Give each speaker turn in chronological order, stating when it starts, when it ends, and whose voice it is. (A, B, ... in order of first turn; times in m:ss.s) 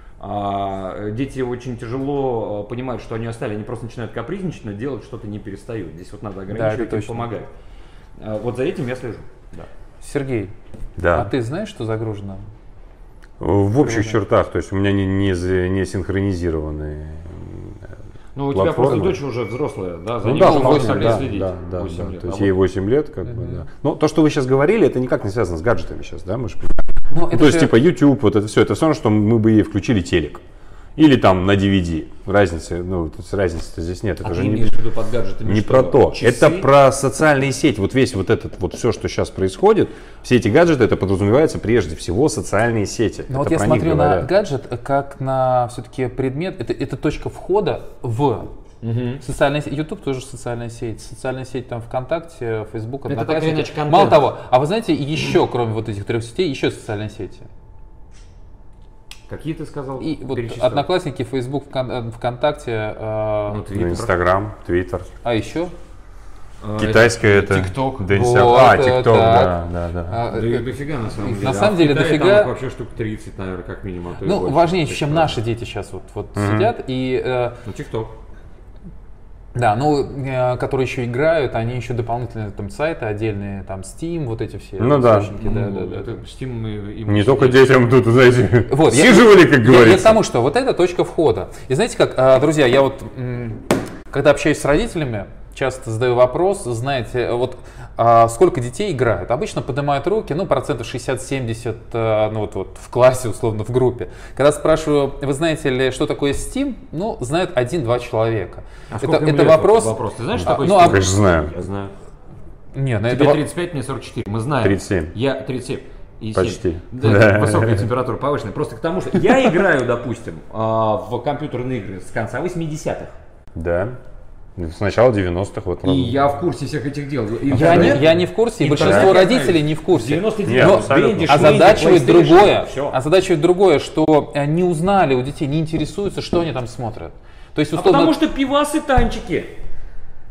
0:00.2-0:07.5 A
0:06.5-0:07.2 B
0:08.2-0:09.7 A
0:10.0-0:10.5 B
0:11.0-0:11.3 C
0:11.1-0:12.4 B
0:13.4-0:17.8 C
0:13.8-0:14.2 B
0:18.3-0:22.5 A
0:18.5-0:19.2 C
0:20.2-0:30.4 C
0:20.4-0:21.3 B
0:23.3-0:23.6 B
0:27.1-0:27.7 B
0:31.0-0:34.7 C
0:34.2-0:36.7 A
0:35.4-0:44.3 C
0:43.3-0:48.5 B
0:48.8-0:49.2 A
0:49.2-0:57.5 B
0:53.1-0:54.2 A
0:59.3-1:00.9 A
1:00.0-1:03.6 B
1:03.5-1:04.1 A
1:03.7-1:05.1 C
1:05.2-1:05.7 B
1:06.6-1:08.1 A
1:06.8-1:10.2 C
1:08.1-1:10.6 B
1:10.3-1:15.4 A
1:11.2-1:12.5 B
1:14.2-1:17.6 B
1:16.4-1:16.7 C
1:17.6-1:18.1 A
1:19.5-1:26.2 B
1:24.8-1:25.3 C
1:25.4-1:27.8 A
1:27.1-1:30.2 C
1:28.7-1:51.1 B
1:48.9-1:51.9 A
1:50.4-1:51.5 C
1:52.7-1:53.4 B
1:53.1-2:03.2 A
1:54.6-1:55.1 C
1:56.3-1:57.8 C
2:03.5-2:04.0 C
2:04.6-2:06.2 C
2:05.8-2:13.0 A
2:07.5-2:18.1 B
2:07.6-2:08.0 C
2:08.7-2:09.1 C
2:10.4-2:11.9 C
2:17.7-2:19.5 A